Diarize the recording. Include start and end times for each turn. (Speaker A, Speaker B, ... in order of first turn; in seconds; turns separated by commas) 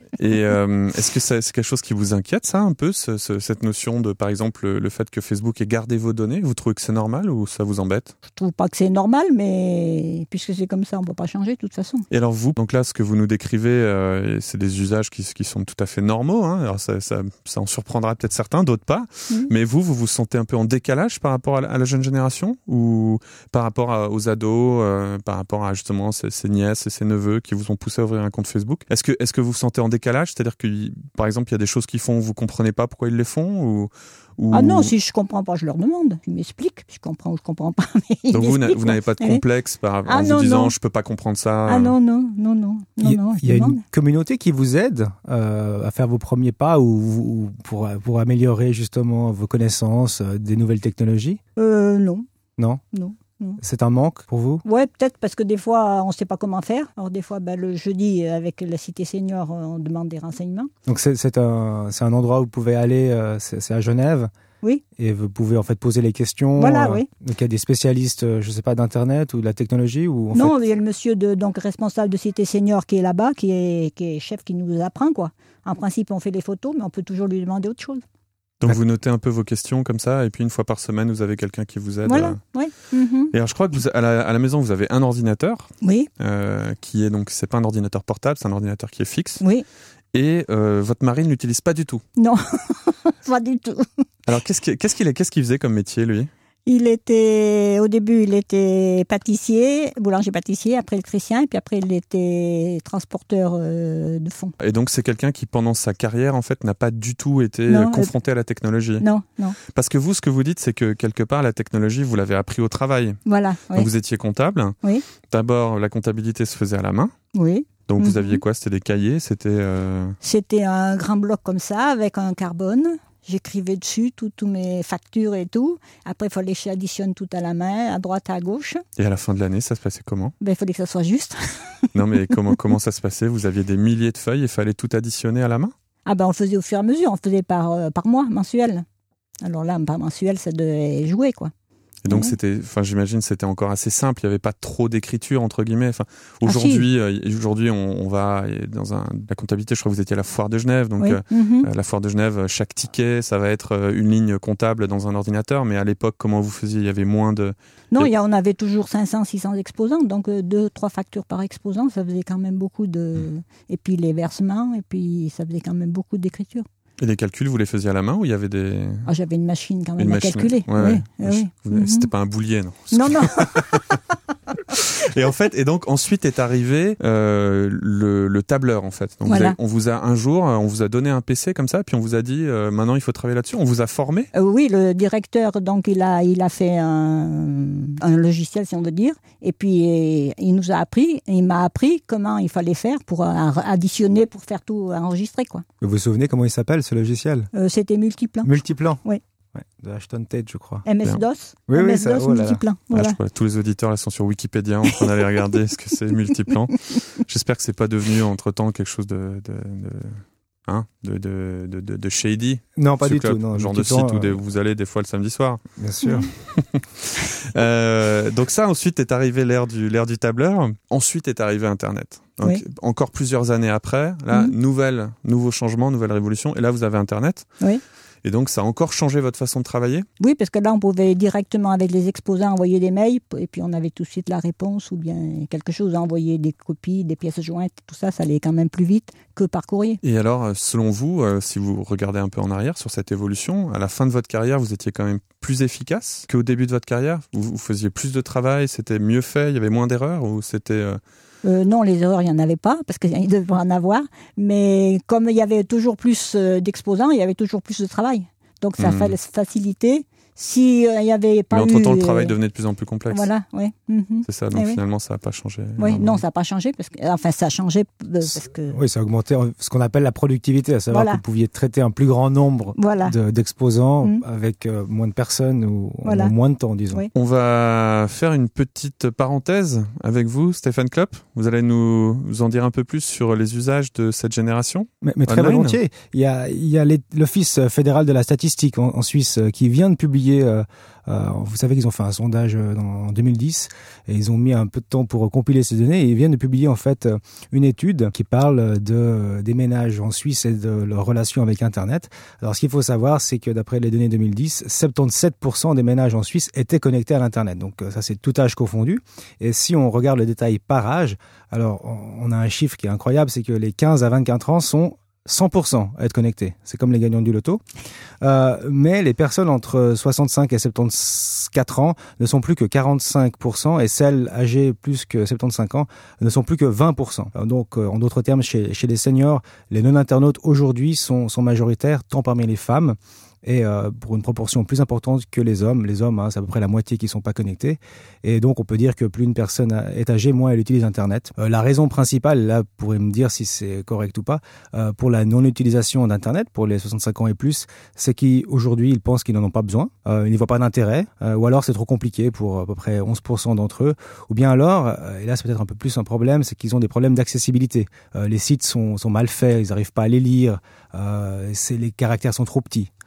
Speaker A: 0.2-8.1, Speaker B: 8.3-12.1, Speaker A: 12.1-34.9, Speaker B: 34.5-39.4, Speaker A: 38.3-41.9, Speaker B: 40.0-40.7, Speaker B: 41.7-43.8, Speaker C: 43.0-51.4, Speaker B: 51.5-52.2, Speaker B: 52.9-53.6, Speaker C: 53.6-54.6, Speaker B: 54.6-60.7, Speaker C: 60.9-64.3, Speaker C: 65.0-70.5, Speaker B: 66.6-67.1, Speaker B: 70.3-78.0, Speaker A: 78.6-82.4, Speaker B: 82.0-83.3, Speaker A: 83.3-89.4, Speaker B: 85.8-86.1, Speaker A: 90.1-92.0, Speaker B: 92.2-94.0, Speaker A: 94.3-96.3, Speaker B: 96.7-104.5, Speaker A: 104.6-109.0, Speaker B: 107.7-108.1, Speaker B: 109.0-109.6, Speaker A: 109.6-113.2, Speaker B: 113.2-113.9, Speaker A: 113.7-114.7, Speaker A: 115.3-117.1, Speaker B: 117.3-118.4, Speaker A: 117.9-120.2, Speaker B: 120.2-128.8, Speaker A: 129.0-130.3, Speaker B: 130.4-131.9, Speaker A: 131.9-135.7, Speaker B: 136.1-138.8, Speaker B: 139.4-141.5, Speaker A: 142.0-158.1, Speaker B: 142.1-142.3, Speaker B: 146.4-146.9, Speaker B: 151.0-151.7, Speaker B: 157.9-166.7, Speaker A: 167.0-169.1, Speaker B: 169.1-172.1, Speaker A: 170.0-174.0, Speaker B: 172.9-174.0, Speaker A: 174.7-184.3, Speaker B: 179.3-179.6, Speaker B: 184.3-195.6, Speaker C: 195.8-197.5, Speaker B: 197.5-198.5, Speaker C: 198.4-199.0, Speaker C: 199.5-200.8, Speaker B: 200.8-203.2, Speaker C: 201.7-202.6, Speaker A: 202.9-215.6, Speaker C: 212.8-214.3, Speaker C: 215.8-216.3, Speaker B: 216.0-216.3, Speaker A: 216.4-227.5, Speaker A: 228.2-230.1, Speaker B: 230.2-240.0, Speaker A: 240.0-251.0, Speaker B: 251.4-262.3, Speaker A: 258.8-259.1, Speaker A: 261.5-263.3, Speaker B: 263.1-264.8, Speaker A: 264.2-266.2, Speaker B: 265.8-268.8, Speaker C: 268.2-277.1, Speaker B: 270.9-271.2, Speaker B: 272.8-273.1, Speaker B: 276.0-276.3, Speaker A: 277.1-285.8, Speaker C: 285.0-317.6, Speaker C: 318.2-362.9